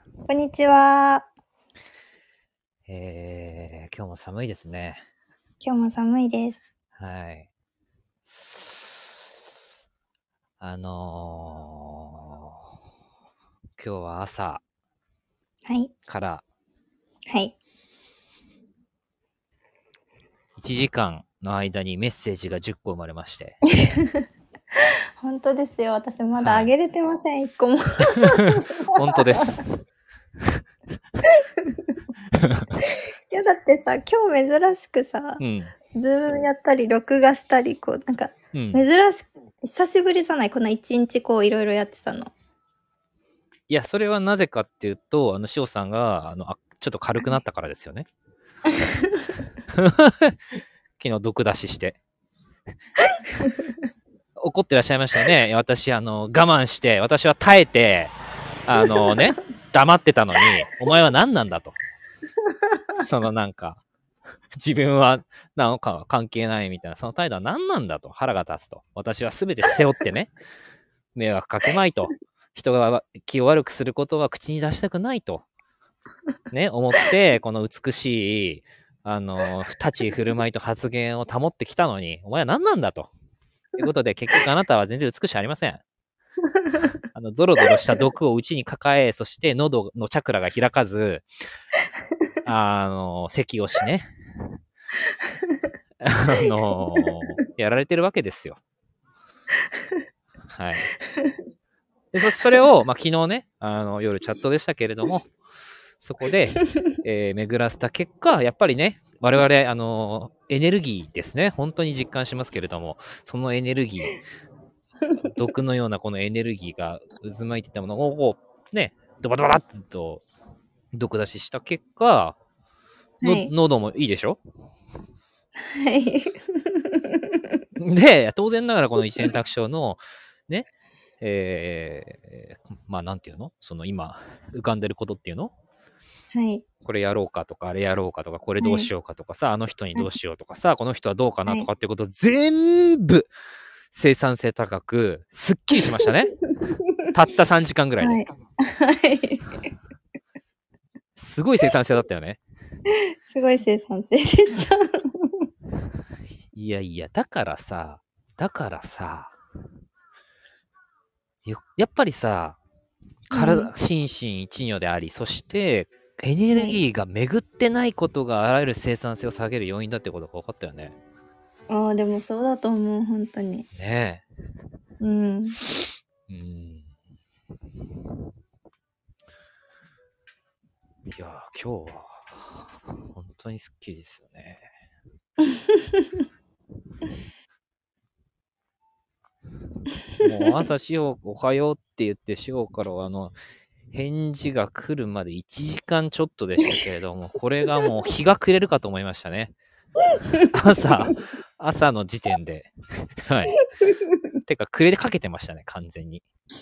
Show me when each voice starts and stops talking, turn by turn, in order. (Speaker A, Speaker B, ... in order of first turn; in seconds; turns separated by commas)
Speaker A: 0.3-1.3, Speaker B: 2.9-5.0, Speaker A: 5.6-6.6, Speaker B: 7.0-7.5, Speaker B: 10.6-12.5, Speaker B: 13.8-14.6, Speaker A: 15.7-15.9, Speaker B: 16.1-16.4, Speaker A: 17.3-17.6, Speaker B: 20.6-23.6, Speaker A: 23.7-24.2, Speaker A: 25.2-29.4, Speaker B: 26.4-26.7, Speaker B: 28.4-29.8, Speaker A: 31.6-31.9, Speaker B: 32.3-32.7, Speaker A: 33.3-35.4, Speaker B: 35.4-35.7, Speaker A: 35.9-42.3, Speaker B: 38.5-38.8, Speaker B: 43.7-48.1, Speaker B: 49.7-50.4, Speaker B: 51.0-52.0, Speaker A: 53.4-53.7, Speaker B: 54.4-58.1, Speaker B: 58.7-61.8, Speaker A: 62.7-63.0, Speaker B: 63.0-63.8, Speaker B: 64.5-70.3, Speaker B: 71.1-75.5, Speaker B: 76.5-83.1, Speaker B: 83.8-85.8, Speaker A: 86.5-86.9, Speaker B: 87.1-91.2, Speaker B: 92.4-94.1, Speaker A: 95.2-95.7, Speaker B: 96.0-98.6, Speaker B: 100.5-100.9, Speaker A: 101.1-101.4, Speaker B: 102.1-105.3, Speaker B: 106.0-114.2, Speaker B: 115.3-120.2, Speaker B: 120.9-122.4, Speaker A: 123.2-123.5, Speaker B: 123.2-124.4, Speaker A: 125.7-127.6, Speaker B: 127.8-130.7, Speaker B: 131.2-135.5, Speaker A: 136.3-136.6, Speaker B: 136.8-143.3, Speaker A: 138.6-138.9, Speaker B: 143.9-146.3, Speaker A: 146.5-147.1, Speaker B: 147.1-148.2, Speaker A: 148.0-149.6, Speaker B: 151.2-152.4, Speaker A: 153.2-155.4, Speaker B: 156.5-159.3, Speaker B: 161.4-162.6, Speaker B: 163.3-171.0, Speaker A: 163.3-163.7, Speaker A: 166.5-166.8, Speaker A: 171.7-173.7, Speaker B: 173.7-174.2, Speaker A: 175.0-175.6, Speaker B: 176.3-176.9, Speaker B: 181.1-184.7, Speaker A: 185.7-186.0, Speaker B: 190.2-193.3, Speaker B: 193.9-199.5, Speaker B: 200.5-202.7, Speaker B: 203.2-203.6, Speaker B: 204.5-206.2